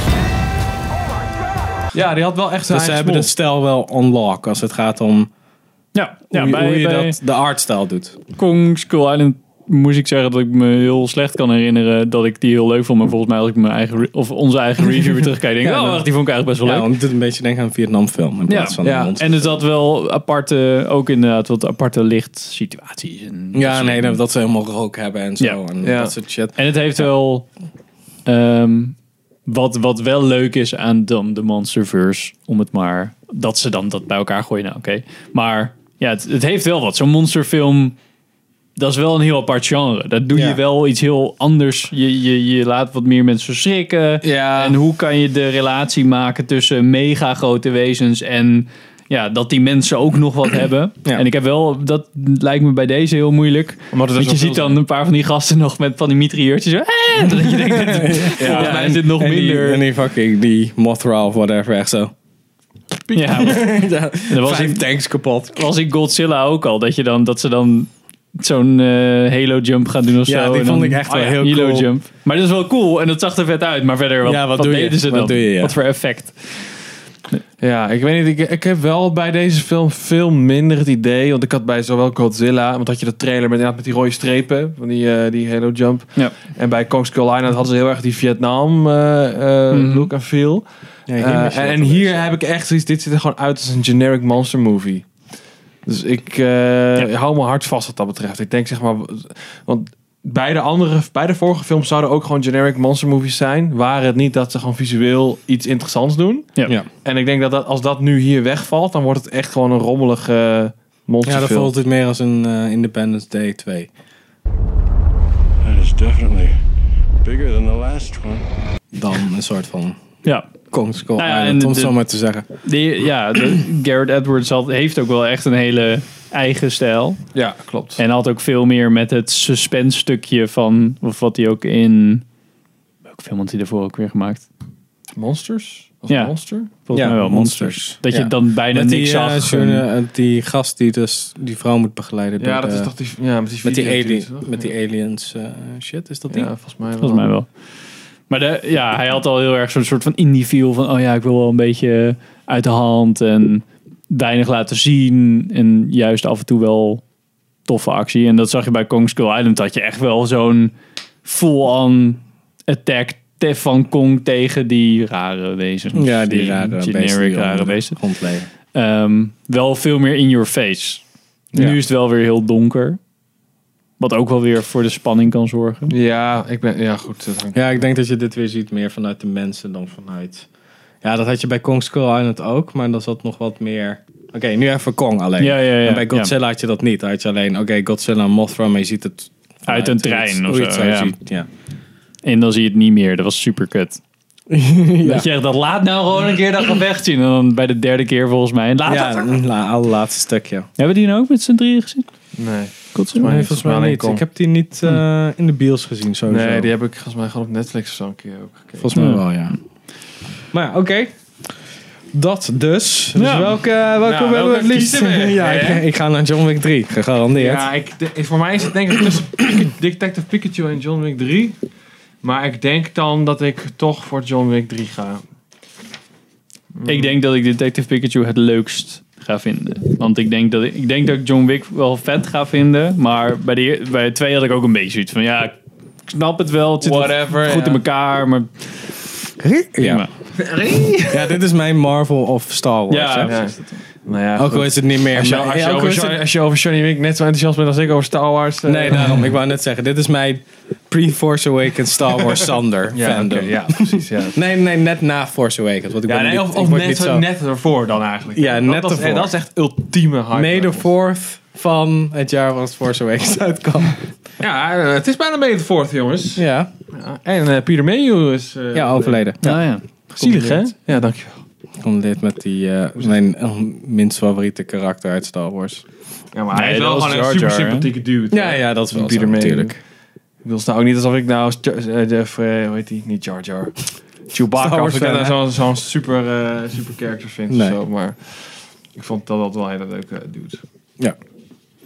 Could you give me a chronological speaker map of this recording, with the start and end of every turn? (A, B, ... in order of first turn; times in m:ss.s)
0:01.9-0:03.3 A
0:02.7-0:05.3 B
0:05.9-0:07.2 C
0:06.3-0:08.2 B
0:08.4-0:16.9 C
0:15.6-0:16.1 B
0:16.6-0:19.5 B
0:18.5-0:24.2 C
0:18.8-0:19.2 A
0:23.5-0:26.6 B
0:25.8-0:26.1 A
0:26.6-0:27.5 C
0:28.2-0:38.0 C
0:38.8-0:59.8 C
0:40.3-0:40.6 B
0:44.2-0:44.8 A
0:53.9-0:54.8 A
0:57.2-1:02.1 B
0:58.4-0:59.0 A
1:03.1-1:03.6 A
1:03.1-1:04.8 C
1:03.4-1:05.7 B
1:05.5-1:16.8 C
1:10.2-1:11.9 B
1:14.2-1:15.8 B
1:17.6-1:35.1 A
1:29.7-1:30.1 C
1:31.1-1:32.3 B
1:35.8-1:51.7 A
1:51.2-1:53.9 B
1:55.6-1:56.5 D
1:57.2-1:58.5 D
1:58.9-2:00.0 B
2:00.2-2:00.5 C
2:00.7-2:02.5 B
2:01.2-2:02.0 C
2:02.6-2:07.2 C
2:07.3-2:08.0 A
2:08.0-2:12.2 C
2:13.1-2:14.5 C
2:15.1-2:16.7 A
2:16.1-2:19.8 C
2:16.9-2:22.9 B
2:22.4-2:24.7 A
2:23.6-2:26.5 B
2:26.3-2:27.3 A
2:27.0-2:27.5 C
2:28.3-2:37.0 C
2:37.6-2:40.7 C
2:41.2-2:48.0 C
2:45.9-2:48.5 B
2:48.7-2:51.0 C
2:51.5-2:51.8 A
2:51.5-2:53.0 C
2:54.0-2:55.9 C
2:55.9-2:57.6 A
2:57.5-3:00.5 B
3:01.0-3:11.5 B
3:05.4-3:06.3 C
3:09.7-3:11.1 C
3:12.2-3:14.0 C
3:14.5-3:15.3 B
3:15.0-3:19.3 C
3:18.8-3:20.7 B
3:20.8-3:22.1 C
3:22.4-3:24.2 A
3:22.9-3:23.3 C
3:23.2-3:26.7 B
3:26.3-3:28.9 A
3:28.8-3:29.6 B
3:28.9-3:29.2 C
3:30.5-3:31.1 B
3:32.1-3:37.7 B
3:33.1-3:33.5 C
3:34.0-3:35.8 A
3:37.3-3:41.6 A
3:42.2-3:45.2 A
3:46.7-3:47.1 A
3:46.8-3:55.6 C
3:56.1-3:58.9 C
3:56.8-3:57.8 A
3:59.4-4:00.0 B
3:59.8-4:00.1 C
4:00.4-4:01.4 A
4:01.0-4:03.3 B
4:02.9-4:03.8 C
4:03.2-4:09.3 A
4:04.4-4:06.2 B
4:08.6-4:17.2 B
4:12.9-4:14.4 A
4:16.1-4:20.9 A
4:18.3-4:19.3 B
4:20.3-4:24.0 B
4:24.4-4:29.5 A
4:26.4-4:26.7 B
4:28.7-4:29.6 B
4:29.4-4:30.6 C
4:30.2-4:31.4 A
4:31.8-4:35.8 B
4:36.3-4:39.8 A
4:36.5-4:37.9 C
4:38.3-4:39.8 B
4:40.4-4:50.6 A
4:44.5-4:45.4 B
4:47.5-4:47.8 B